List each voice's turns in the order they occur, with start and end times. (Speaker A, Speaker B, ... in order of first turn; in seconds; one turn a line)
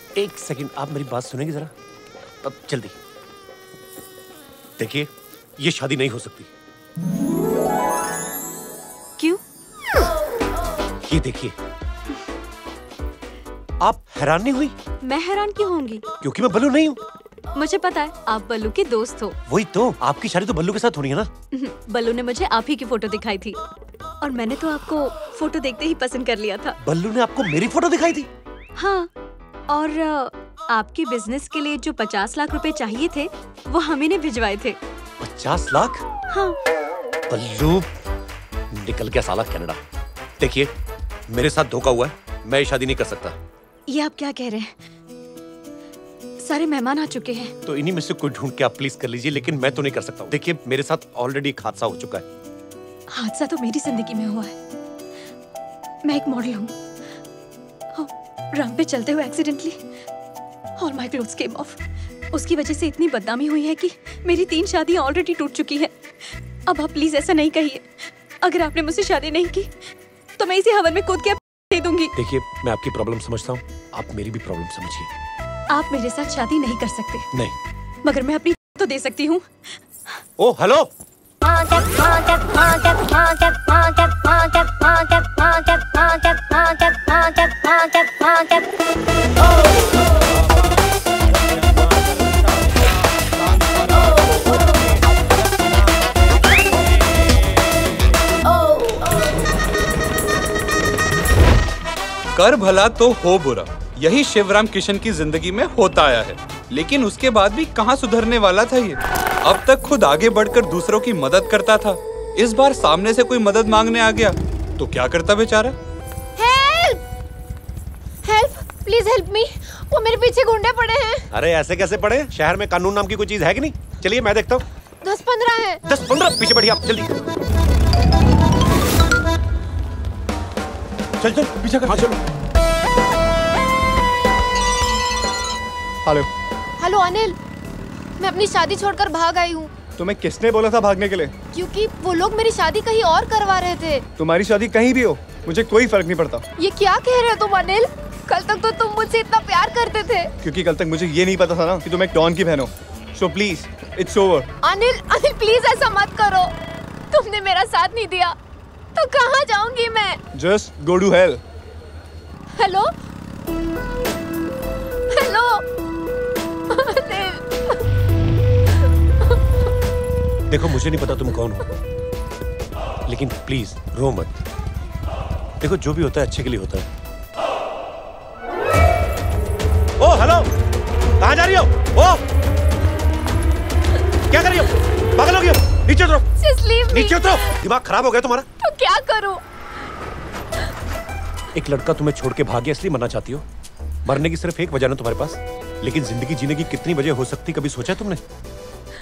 Speaker A: 0.1-1.7
Speaker A: 2.4-3.0
Speaker A: 4.8-6.5
Speaker A: 11.0-11.5
Speaker A: 13.8-14.7
Speaker B: 15.0-16.0
Speaker A: 16.2-17.0
Speaker B: 17.5-19.4
Speaker A: 19.5-21.3
Speaker B: 21.5-23.6
Speaker B: 24.2-26.8
Speaker A: 26.8-28.3
Speaker B: 28.8-29.1
Speaker B: 29.7-34.8
Speaker A: 35.2-36.0
Speaker B: 36.3-36.6
Speaker A: 37.3-37.9
Speaker A: 38.7-39.8
Speaker A: 40.4-40.7
Speaker A: 41.3-43.4
Speaker B: 43.9-44.7
Speaker B: 46.4-47.5
Speaker A: 47.6-52.3
Speaker B: 53.1-54.5
Speaker B: 56.0-56.7
Speaker B: 57.9-59.8
Speaker B: 60.8-61.8
Speaker B: 62.3-65.9
Speaker B: 66.7-69.7
Speaker B: 70.4-72.1
Speaker A: 72.2-75.1
Speaker B: 75.7-77.3
Speaker B: 78.0-79.5
Speaker A: 80.4-80.9
Speaker C: 102.3-115.7
Speaker D: 116.4-117.0
Speaker D: 118.2-121.2
Speaker A: 121.3-124.6
Speaker D: 125.0-125.8
Speaker A: 125.8-127.2
Speaker A: 131.2-132.2
Speaker D: 136.8-137.4
Speaker D: 138.2-139.8
Speaker E: 140.0-141.3
Speaker D: 141.5-144.1
Speaker E: 144.2-146.4
Speaker D: 146.6-150.3
Speaker E: 150.4-154.5
Speaker D: 154.6-156.5
Speaker D: 157.1-158.3
Speaker D: 158.9-160.2
Speaker E: 160.3-161.4
Speaker D: 162.6-162.9
Speaker D: 165.1-165.6
Speaker D: 166.7-167.7
Speaker A: 170.5-171.7
Speaker A: 173.1-174.4
Speaker A: 175.6-176.9
Speaker A: 180.0-180.5
Speaker A: 181.2-182.2
Speaker A: 184.3-186.3
Speaker D: 186.4-187.4
Speaker A: 186.9-188.5
Speaker D: 188.6-189.4
Speaker A: 191.5-193.4
Speaker A: 194.1-198.2